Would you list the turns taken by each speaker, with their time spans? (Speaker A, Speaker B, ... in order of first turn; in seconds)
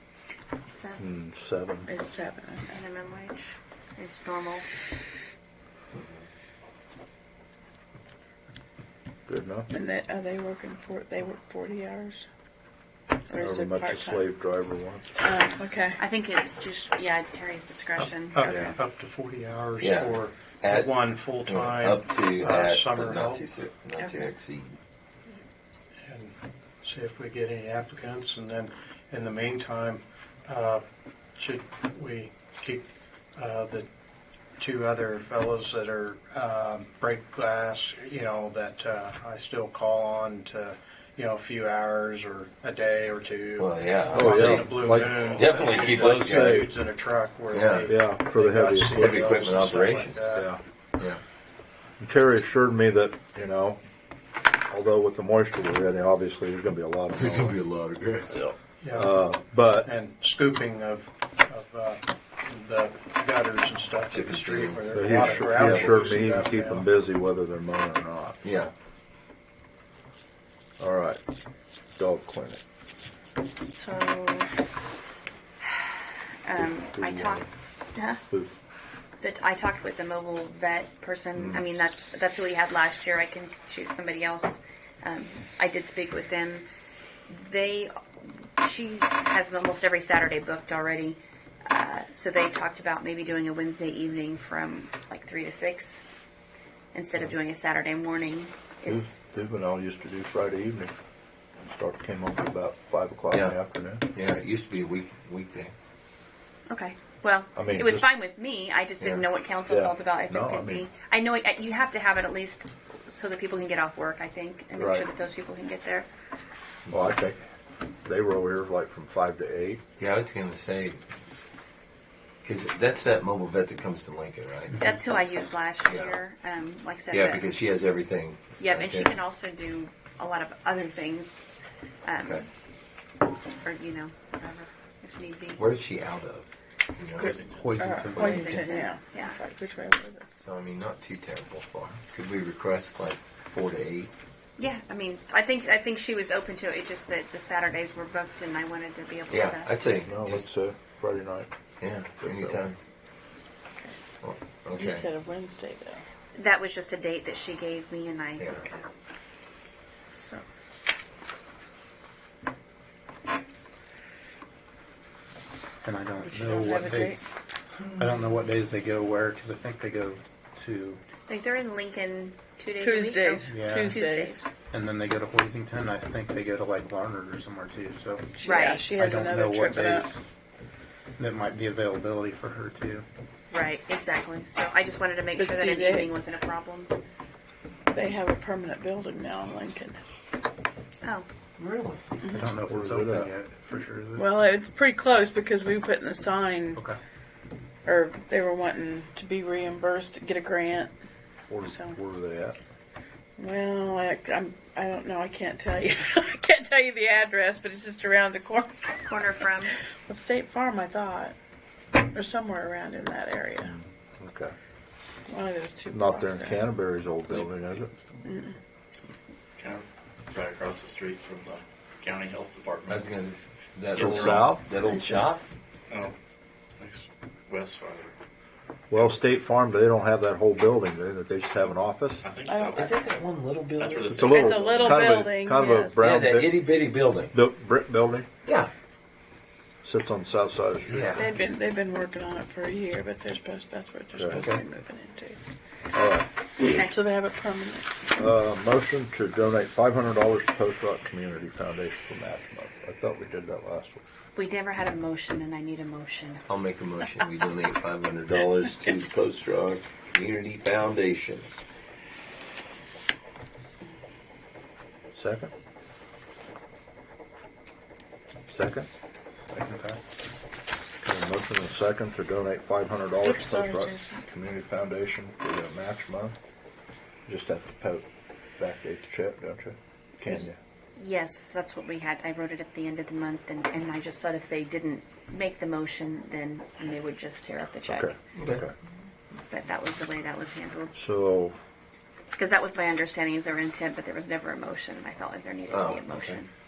Speaker A: 0.7-1.0, 2.7-4.7, 16.0-18.8, 73.8-74.5, 75.6-77.4, 77.9-78.2, 79.2-86.6, 87.3-96.0, 96.9-99.2, 106.7-116.1, 124.8-127.5, 128.6-131.5, 132.1-132.4, 133.6-135.7, 138.1-139.4, 144.6-149.7, 156.3-158.8, 171.3-174.4, 178.4-178.9, 183.5-186.9, 208.9-209.7, 254.3-256.4, 281.0-288.2, 289.5-290.9, 292.3-296.5
Speaker B: 1.0-1.9, 9.3-9.7, 13.3-15.1, 18.5-18.7, 44.1-45.3, 46.0-46.7, 47.9-49.4, 50.3-50.6, 52.0-53.8, 54.7-57.6, 58.9-59.9, 64.9-68.4, 70.8-71.2, 72.0-72.6, 76.6-77.5, 98.9-100.9, 101.6-104.0, 107.5-108.0, 109.7-110.8, 114.8-115.1, 116.9-117.4, 118.0-119.8, 150.0-151.5, 152.2-152.6, 192.4-193.3, 201.5-202.6, 213.6-214.5, 215.9-217.9, 224.0-224.7, 228.9-232.2, 234.1-236.7, 237.3-238.3, 239.8-241.1, 244.1-244.4, 245.9-246.3, 248.1-254.0, 265.1-265.5, 268.5-268.9, 271.0-276.3, 277.3-278.1, 278.6-280.6, 287.9-288.7, 290.9-291.6
Speaker C: 1.9-2.8, 9.7-12.2, 13.3-14.2, 15.2-16.0, 137.2-140.3, 154.7-156.0, 166.2-167.2, 172.8-174.4, 178.4-180.1, 185.4-186.1, 187.9-190.0, 194.2-196.8, 197.8-200.9, 201.7-202.0, 203.4-209.3, 210.1-211.3, 212.1-213.7, 215.3-216.7, 218.2-218.6, 224.9-225.2, 232.5-233.0, 234.2-236.0, 241.2-245.5, 246.6-247.9, 273.2-274.2
Speaker D: 18.0-23.4, 26.0-30.8, 31.4-33.9, 34.6-50.5, 58.3-66.9
Speaker E: 19.8-24.8, 43.6-46.7, 47.5-47.9, 48.9-50.2, 57.1-58.6, 64.1-66.0, 68.4-68.7, 104.1-105.7, 109.0-109.2, 120.0-121.0, 122.4-124.8, 125.8-126.1, 127.1-129.1, 135.6-137.4, 140.4-144.1, 149.3-150.5, 151.8-152.8, 154.2-155.1, 158.4-158.7, 191.6-192.0, 222.9-225.5, 232.7-234.2, 236.0-237.3, 238.4-238.7, 240.9-241.3, 244.3-244.6, 256.5-261.5, 288.4-288.7, 295.7-296.4
Speaker F: 45.1-45.9, 137.2-137.9, 219.6-223.1, 223.9-224.6, 225.9-226.1, 226.8-228.1, 232.2-233.0, 233.8-235.2
Speaker G: 137.4-138.6, 165.8-167.2, 168.0-171.0, 173.5-174.0, 174.7-178.3, 178.9-180.2, 181.2-183.0, 192.3-194.3, 269.4-270.0